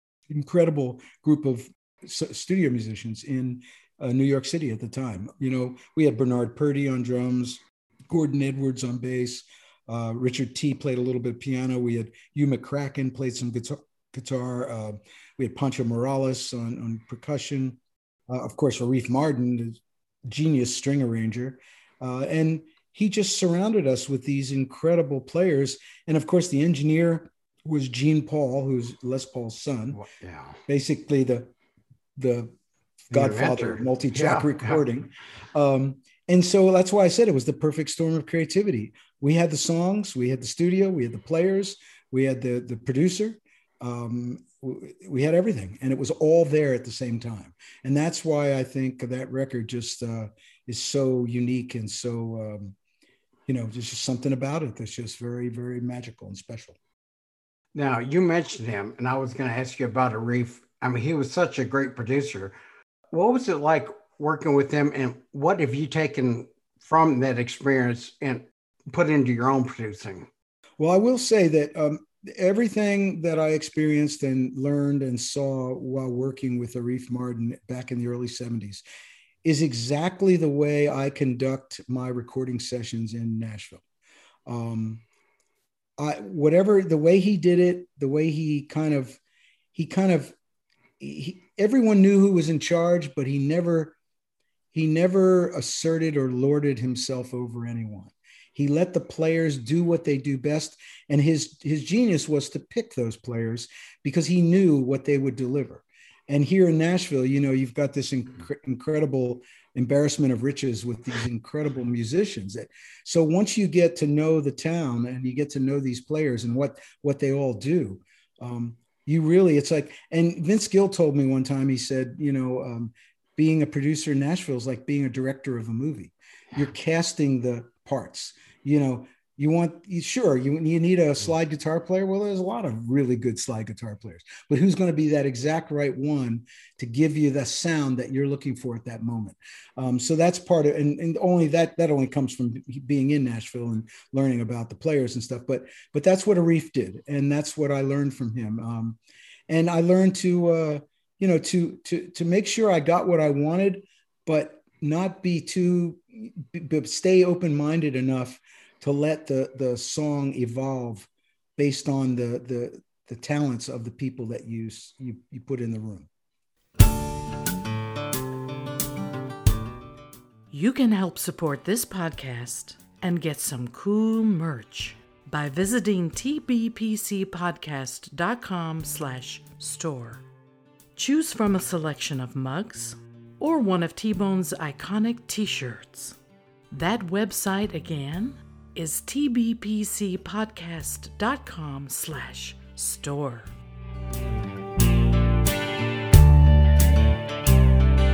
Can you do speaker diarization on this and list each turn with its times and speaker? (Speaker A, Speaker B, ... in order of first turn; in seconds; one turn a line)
Speaker A: 0.3-17.8
Speaker A: 18.3-30.0
Speaker B: 29.9-30.6
Speaker A: 30.7-31.5
Speaker A: 32.2-32.5
Speaker A: 33.1-52.8
Speaker B: 33.1-34.8
Speaker A: 53.5-56.8
Speaker B: 57.7-62.5
Speaker B: 63.1-70.3
Speaker A: 70.8-78.8
Speaker A: 79.4-83.8
Speaker A: 84.5-85.0
Speaker A: 86.0-89.2
Speaker A: 89.7-90.3
Speaker A: 91.0-94.0
Speaker A: 94.7-149.0
Speaker A: 149.5-166.1
Speaker C: 170.5-180.3
Speaker C: 181.0-186.2
Speaker C: 186.7-193.5